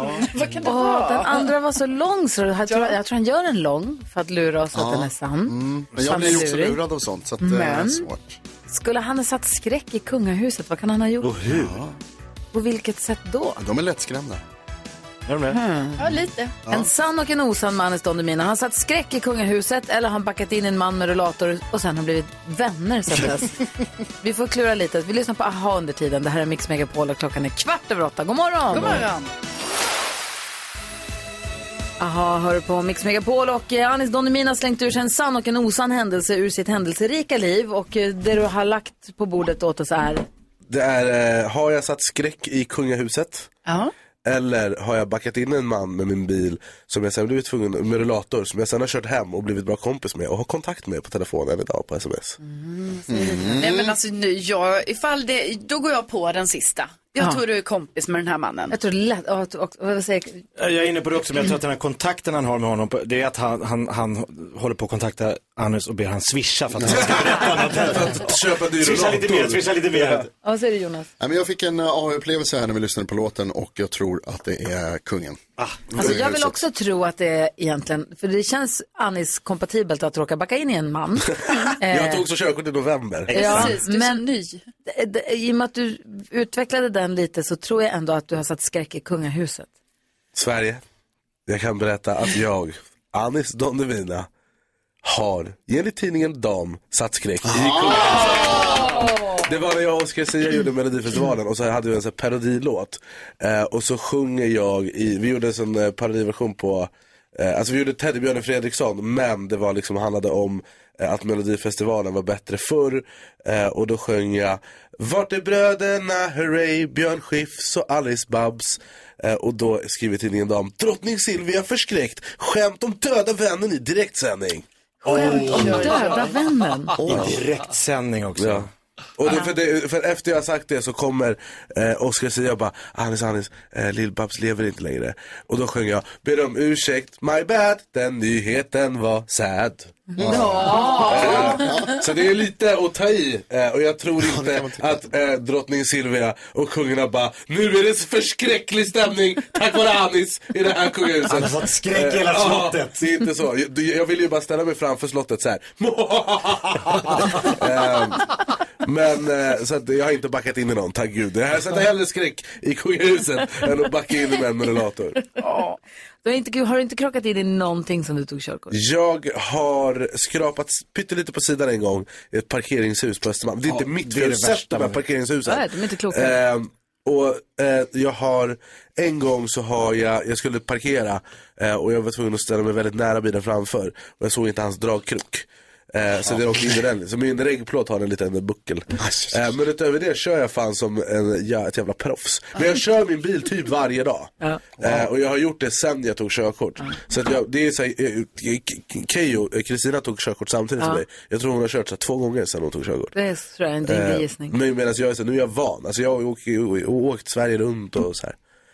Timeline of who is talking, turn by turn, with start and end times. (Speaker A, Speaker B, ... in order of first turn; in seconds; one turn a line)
Speaker A: 0.1-1.5
Speaker B: 0.6-6.8
Speaker A: 2.7-2.9
Speaker C: 4.7-8.4
Speaker B: 7.4-8.1
Speaker B: 8.7-11.3
Speaker D: 11.2-11.8
Speaker C: 11.5-12.0
Speaker B: 12.5-13.6
Speaker C: 13.6-14.4
Speaker D: 15.3-15.6
Speaker B: 15.5-16.0
Speaker A: 16.0-16.5
Speaker B: 16.7-23.6
Speaker B: 24.2-29.1
Speaker A: 28.7-29.3
Speaker B: 32.0-40.2
Speaker E: 40.7-43.5
Speaker A: 43.6-43.9
Speaker E: 44.2-52.4
Speaker B: 52.4-53.5
Speaker C: 53.1-53.9
Speaker A: 53.5-58.7
Speaker B: 58.7-60.4
Speaker D: 60.6-70.3
Speaker C: 66.8-67.1
Speaker E: 66.9-70.2
Speaker B: 70.4-71.1
Speaker C: 71.2-75.4
Speaker D: 75.6-75.8
Speaker C: 75.9-76.6
Speaker B: 76.0-82.2
Speaker E: 81.9-83.7
Speaker A: 83.3-84.6
Speaker B: 83.3-84.2
Speaker B: 84.8-89.7
Speaker E: 90.3-90.8
Speaker E: 91.5-94.3
Speaker E: 95.0-98.8
Speaker C: 97.4-99.0
Speaker B: 98.3-99.4
Speaker E: 99.4-124.6
Speaker D: 125.0-126.3
Speaker B: 125.1-126.9
Speaker A: 125.1-126.3
Speaker C: 127.0-127.4
Speaker D: 127.0-128.7
Speaker E: 128.4-140.1
Speaker B: 140.1-141.9
Speaker C: 140.2-142.0
Speaker E: 141.1-158.3
Speaker C: 144.2-145.1
Speaker D: 151.3-153.0
Speaker E: 158.8-165.2
Speaker A: 165.4-165.8
Speaker B: 166.2-168.8
Speaker E: 168.7-203.1
Speaker D: 173.6-175.0
Speaker B: 175.4-176.4
Speaker C: 189.0-189.5
Speaker C: 194.8-195.1
Speaker B: 203.1-204.6
Speaker E: 203.8-208.3